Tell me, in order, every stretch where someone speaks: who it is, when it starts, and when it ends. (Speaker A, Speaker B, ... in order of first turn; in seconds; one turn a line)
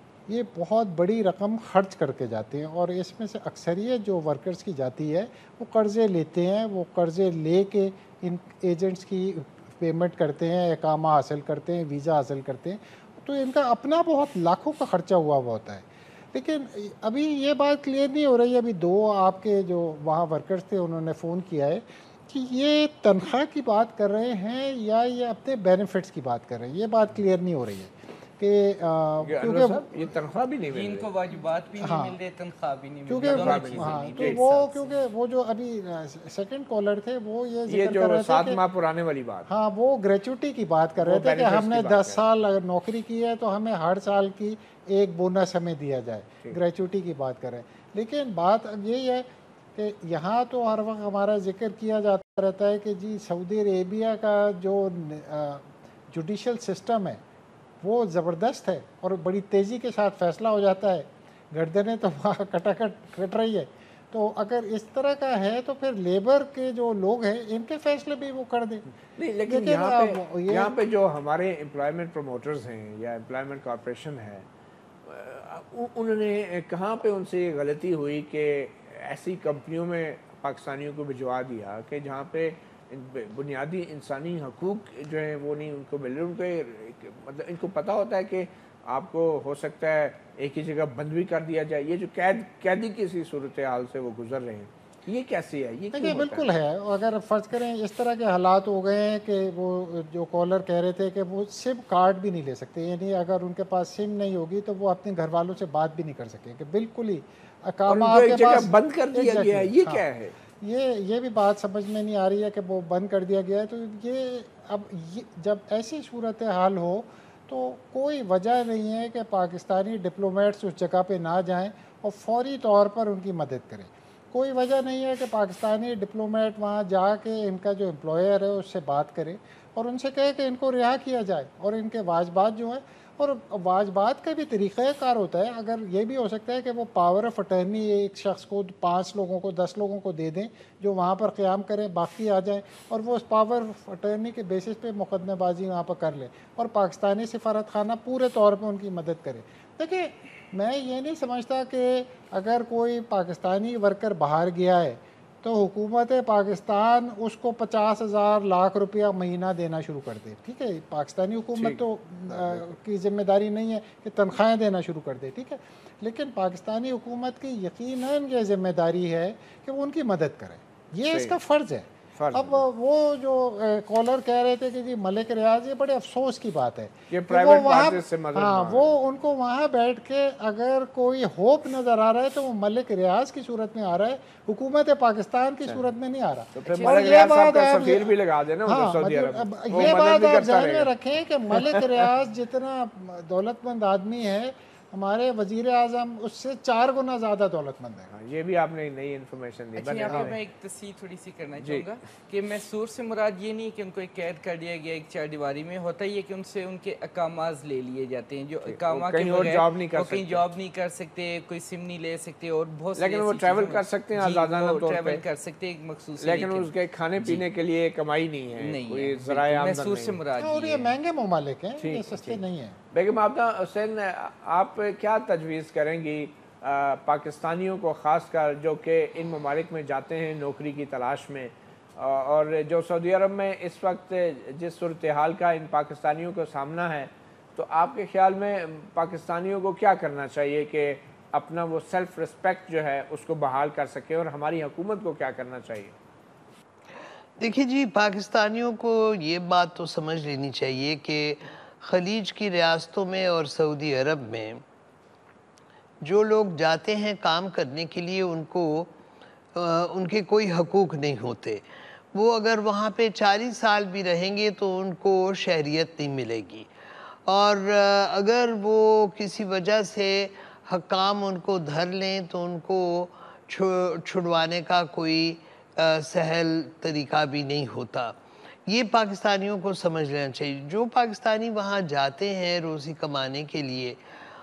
Speaker A: 0.3-29.9
Speaker B: 29.2-31.1
Speaker C: 30.7-34.9
Speaker A: 31.8-32.2
Speaker A: 33.1-38.6
Speaker B: 33.2-34.4
Speaker B: 37.7-39.5
Speaker A: 39.5-57.2
Speaker B: 41.0-42.2
Speaker A: 57.8-68.9
Speaker B: 69.2-74.5
Speaker A: 69.5-70.8
Speaker B: 75.0-96.5
Speaker A: 95.9-110.0
Speaker B: 107.9-110.3
Speaker A: 110.6-188.1
Speaker B: 161.6-162.6
Speaker B: 171.1-171.4
Speaker B: 172.2-172.7
Speaker B: 177.1-179.0
Speaker B: 186.6-190.9
Speaker C: 186.7-187.1
Speaker A: 188.7-198.1
Speaker B: 191.5-192.0
Speaker B: 198.1-200.4
Speaker C: 199.8-217.4
Speaker B: 201.6-201.9
Speaker B: 208.7-210.4
Speaker B: 213.0-215.2
Speaker B: 216.2-220.2
Speaker C: 218.6-220.9
Speaker A: 220.4-222.8
Speaker B: 221.8-222.4
Speaker B: 222.9-246.0
Speaker D: 247.4-254.6
Speaker D: 256.0-258.9
Speaker D: 259.6-266.7
Speaker D: 267.3-284.0